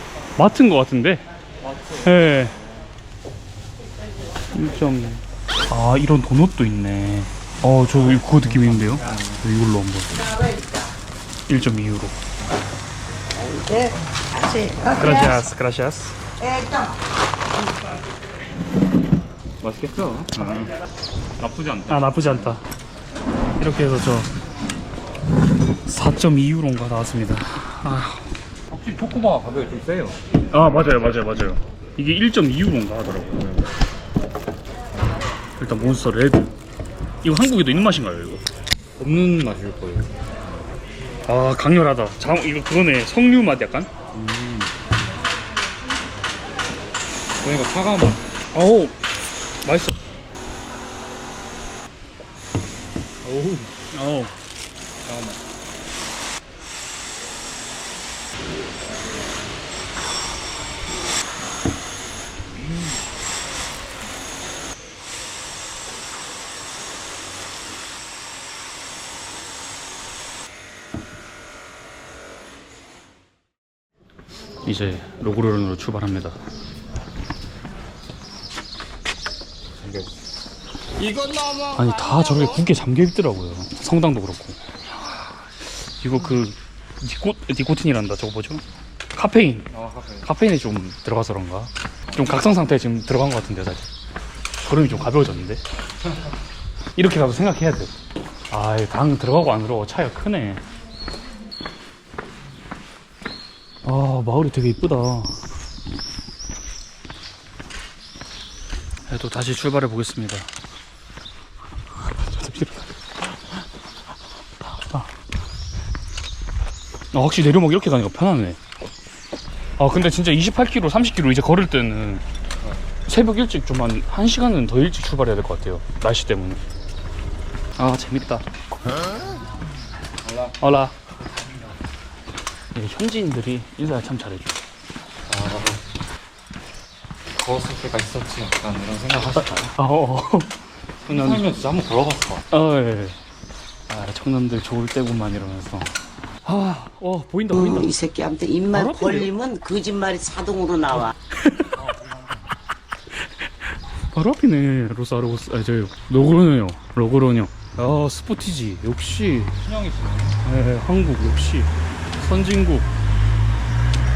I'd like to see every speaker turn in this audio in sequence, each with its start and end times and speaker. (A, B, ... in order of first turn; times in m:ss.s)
0:00.4-0:01.2 A
0:01.7-0:02.0 B
0:02.0-0:02.6 A
0:04.5-0:10.4 A
0:08.8-0:09.3 B
0:11.5-0:12.2 A
0:13.4-0:15.2 C
0:14.9-0:16.2 A
0:16.4-0:17.0 C
0:19.6-0:20.7 B
0:21.4-0:22.6 B
0:21.9-0:22.6 A
0:23.6-0:24.3 A
0:25.8-0:28.3 A
0:28.7-0:30.2 B
0:30.5-0:33.7 A
0:35.6-0:36.5 A
0:37.2-0:38.4 A
0:39.0-0:40.2 B
0:41.2-0:43.9 A
0:44.1-0:44.7 B
0:47.4-0:48.2 B
0:48.5-0:49.0 A
0:49.6-0:50.0 A
0:53.2-0:53.7 B
0:53.9-0:54.4 A
0:55.0-0:55.4 B
1:14.6-1:16.4 A
1:19.8-1:20.2 B
1:21.0-1:21.7 B
1:21.7-1:29.7 A
1:29.7-1:30.3 B
1:30.2-1:33.9 A
1:34.6-1:35.6 A
1:36.9-1:37.9 A
1:38.5-1:40.6 A
1:43.8-1:45.4 A
1:49.1-1:50.5 A
1:52.1-1:52.9 A
1:54.7-1:55.1 A
1:57.1-1:58.6 A
1:59.8-2:02.2 A
2:03.1-2:06.6 A
2:07.8-2:08.5 A
2:10.2-2:10.6 B
2:10.6-2:10.9 A
2:11.3-2:11.6 B
2:12.7-2:14.6 A
2:15.3-2:15.8 B
2:17.3-2:19.7 B
2:19.6-2:21.4 A
2:21.0-2:22.4 B
2:22.5-2:23.2 A
2:23.9-2:28.0 A
2:27.6-2:31.1 C
2:28.7-2:29.3 A
2:31.3-2:31.7 A
2:31.8-2:32.2 B
2:34.0-2:39.6 A
2:39.6-2:40.4 B
2:40.4-2:42.9 A